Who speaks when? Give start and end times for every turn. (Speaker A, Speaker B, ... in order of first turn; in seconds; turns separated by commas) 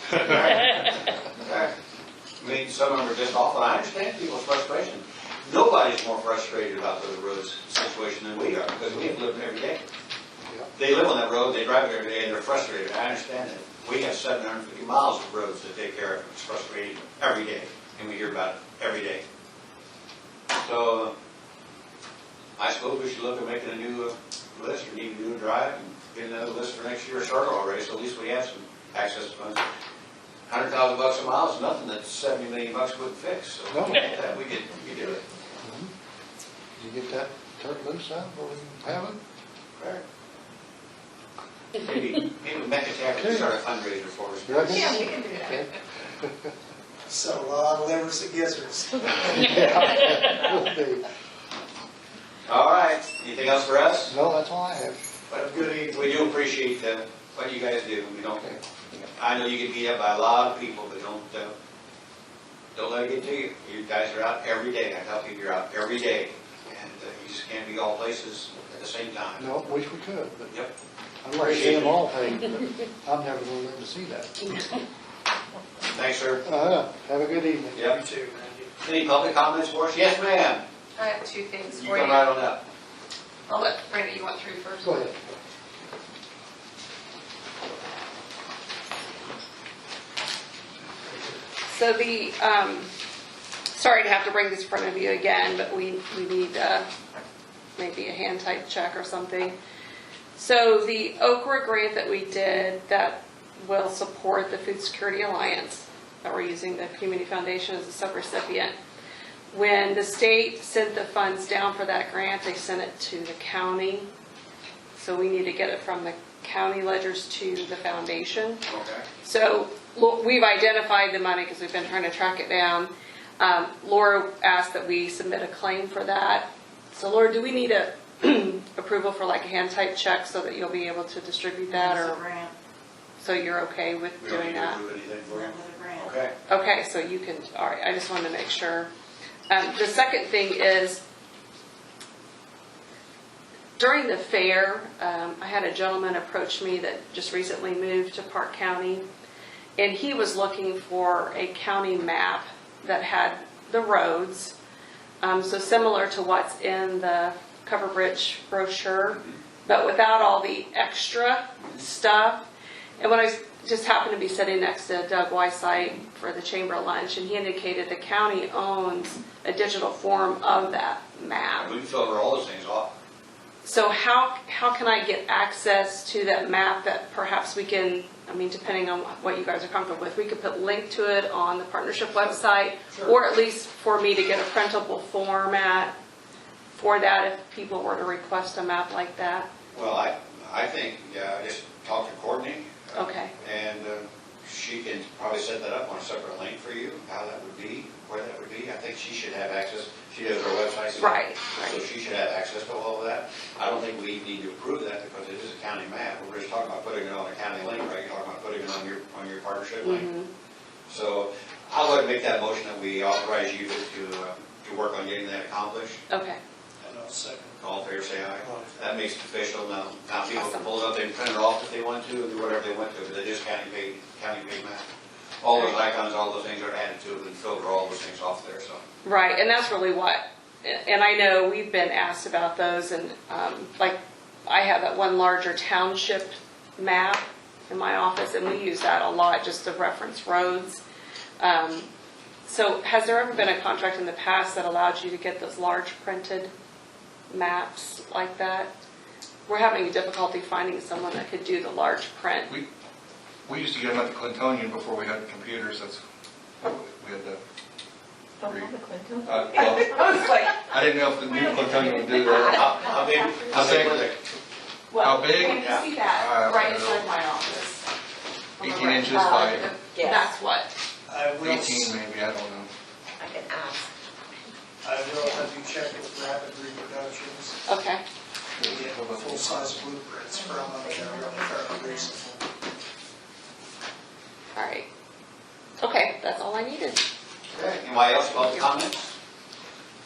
Speaker A: 0.1-1.7, Speaker A: 2.4-9.8, Speaker A: 10.8-19.2, Speaker A: 20.5-21.1, Speaker A: 22.6-29.6, Speaker A: 30.5-35.2, Speaker B: 33.7-34.0, Speaker B: 35.6-35.9, Speaker B: 36.8-39.2, Speaker A: 41.7-45.0, Speaker B: 43.1-43.5, Speaker B: 44.5-46.5, Speaker C: 44.7-45.6, Speaker D: 47.1-49.5, Speaker B: 49.1-51.1, Speaker A: 52.5-54.1, Speaker B: 54.1-55.1, Speaker A: 55.3-61.5, Speaker D: 55.5-55.9, Speaker A: 62.7-69.5, Speaker B: 69.4-70.6, Speaker B: 71.2-74.6, Speaker A: 71.4-72.0, Speaker A: 75.8-76.4, Speaker B: 76.4-78.0, Speaker A: 77.7-78.0, Speaker D: 77.9-78.7, Speaker A: 78.8-80.6, Speaker E: 81.0-82.3, Speaker A: 81.8-82.6, Speaker E: 83.5-85.1, Speaker B: 84.8-85.2, Speaker E: 91.7-92.9, Speaker E: 93.7-96.9, Speaker E: 97.8-99.6, Speaker E: 100.4-108.7, Speaker E: 109.5-114.1, Speaker E: 115.0-118.6, Speaker A: 118.7-119.1, Speaker E: 119.2-132.2, Speaker C: 131.7-132.5, Speaker E: 133.2-134.8, Speaker A: 134.2-136.3, Speaker C: 135.3-136.1, Speaker E: 136.5-138.9, Speaker E: 139.5-141.0, Speaker E: 143.8-149.1, Speaker E: 149.8-154.6, Speaker E: 155.2-162.5, Speaker E: 163.0-171.8, Speaker A: 171.6-172.9, Speaker E: 173.6-185.9, Speaker E: 186.8-189.5, Speaker A: 189.7-210.1, Speaker E: 192.9-193.3, Speaker E: 201.0-201.8, Speaker E: 209.8-210.3, Speaker A: 210.9-216.0, Speaker E: 216.1-216.4, Speaker D: 216.8-217.6, Speaker A: 217.6-224.8, Speaker D: 218.4-218.8, Speaker E: 220.3-220.7, Speaker A: 225.4-228.8, Speaker E: 229.0-240.8, Speaker E: 241.4-241.9, Speaker E: 242.5-246.5, Speaker E: 247.3-248.7, Speaker E: 249.5-252.5, Speaker F: 253.5-256.0, Speaker F: 256.6-257.4, Speaker C: 258.4-263.9, Speaker F: 258.4-262.9, Speaker A: 262.4-264.2, Speaker F: 263.5-264.1, Speaker E: 264.9-267.8, Speaker F: 264.9-267.1, Speaker A: 265.5-265.8, Speaker E: 268.6-270.7, Speaker F: 268.6-269.8, Speaker C: 269.1-270.3, Speaker D: 271.1-271.9, Speaker F: 271.4-272.7, Speaker C: 273.2-273.9, Speaker D: 274.8-277.6, Speaker E: 277.7-278.0, Speaker F: 278.6-279.9, Speaker D: 278.6-282.4, Speaker C: 280.3-282.2, Speaker E: 284.6-284.9, Speaker E: 285.8-287.1, Speaker A: 287.5-289.1, Speaker E: 288.3-288.7